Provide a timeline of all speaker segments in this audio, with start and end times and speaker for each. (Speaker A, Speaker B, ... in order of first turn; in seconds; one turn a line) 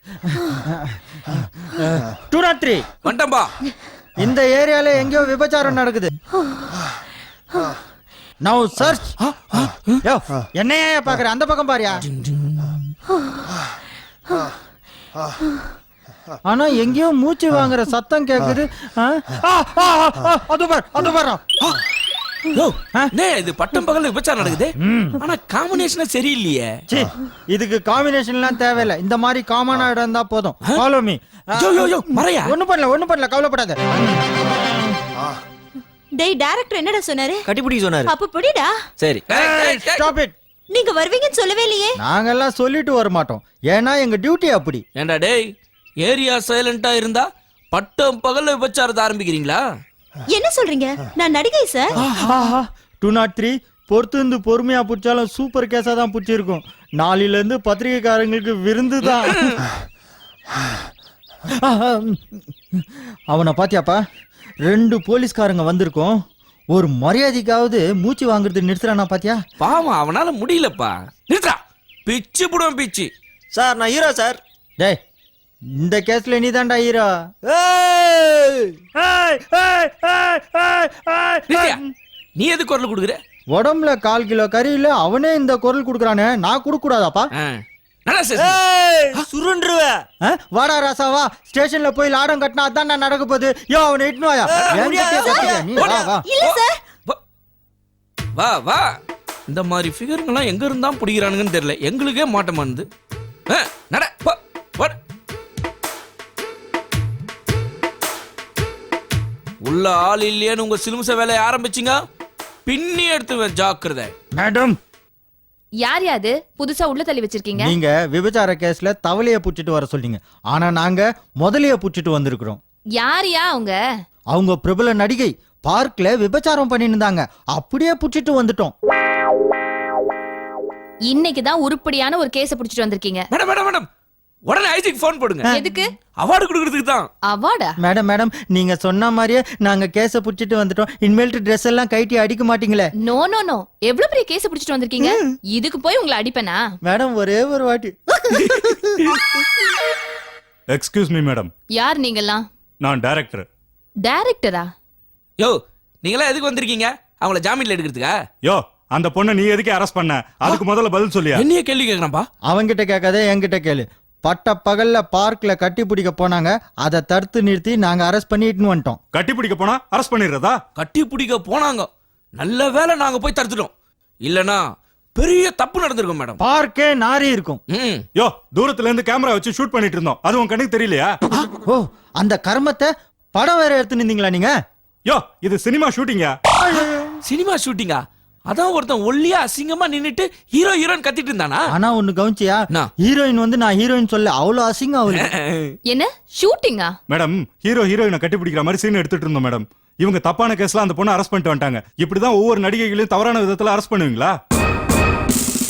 Speaker A: 0.2-2.9
Speaker B: 3.0-3.5
Speaker A: 4.2-6.1
Speaker A: 8.4-9.1
Speaker B: 9.2-10.0
Speaker A: 10.0-12.0
Speaker B: 12.1-12.8
Speaker A: 16.4-21.7
Speaker B: 22.5-26.7
Speaker A: 24.8-25.2
Speaker A: 26.9-34.8
Speaker B: 31.6-32.5
Speaker C: 36.2-37.5
Speaker D: 37.5-38.1
Speaker C: 38.1-38.7
Speaker D: 39.0-39.2
Speaker B: 39.3-40.1
Speaker A: 39.3-40.3
Speaker C: 40.7-42.0
Speaker A: 42.0-44.8
Speaker B: 45.0-45.5
Speaker B: 46.0-49.6
Speaker C: 50.3-51.9
Speaker B: 52.0-52.3
Speaker A: 52.1-59.6
Speaker B: 59.2-59.6
Speaker A: 61.5-64.0
Speaker A: 64.6-66.2
Speaker A: 66.7-69.4
Speaker B: 69.6-73.1
Speaker D: 73.5-74.4
Speaker A: 75.8-77.1
Speaker D: 77.5-78.7
Speaker A: 79.0-81.9
Speaker B: 81.5-81.8
Speaker B: 82.4-83.2
Speaker A: 83.5-87.3
Speaker B: 87.3-88.6
Speaker D: 88.4-90.0
Speaker A: 90.2-96.2
Speaker D: 94.5-94.9
Speaker B: 94.6-97.2
Speaker C: 95.0-96.8
Speaker B: 98.3-98.9
Speaker B: 99.5-102.9
Speaker B: 103.5-105.0
Speaker B: 109.6-112.0
Speaker B: 112.7-114.1
Speaker A: 114.4-114.8
Speaker E: 115.8-117.8
Speaker A: 117.6-122.6
Speaker E: 123.0-123.8
Speaker A: 124.3-128.7
Speaker E: 131.1-133.3
Speaker B: 133.3-133.9
Speaker B: 134.5-135.5
Speaker E: 135.5-135.8
Speaker B: 136.2-137.1
Speaker E: 137.3-137.7
Speaker A: 137.8-142.9
Speaker E: 143.0-146.6
Speaker A: 146.8-149.1
Speaker B: 148.3-149.2
Speaker F: 150.7-151.5
Speaker E: 151.7-152.4
Speaker F: 152.8-153.5
Speaker E: 154.0-154.7
Speaker B: 155.4-158.1
Speaker F: 158.4-161.4
Speaker B: 161.3-162.2
Speaker A: 162.5-169.0
Speaker F: 169.1-170.6
Speaker B: 170.8-173.7
Speaker B: 174.2-174.6
Speaker B: 175.2-176.4
Speaker A: 176.4-177.6
Speaker B: 177.7-178.0
Speaker F: 178.2-181.2
Speaker A: 181.4-184.5
Speaker F: 185.1-186.3
Speaker A: 186.6-187.2
Speaker B: 187.2-191.7
Speaker A: 191.7-195.3
Speaker B: 195.1-195.7
Speaker E: 195.9-196.9
Speaker F: 197.1-204.3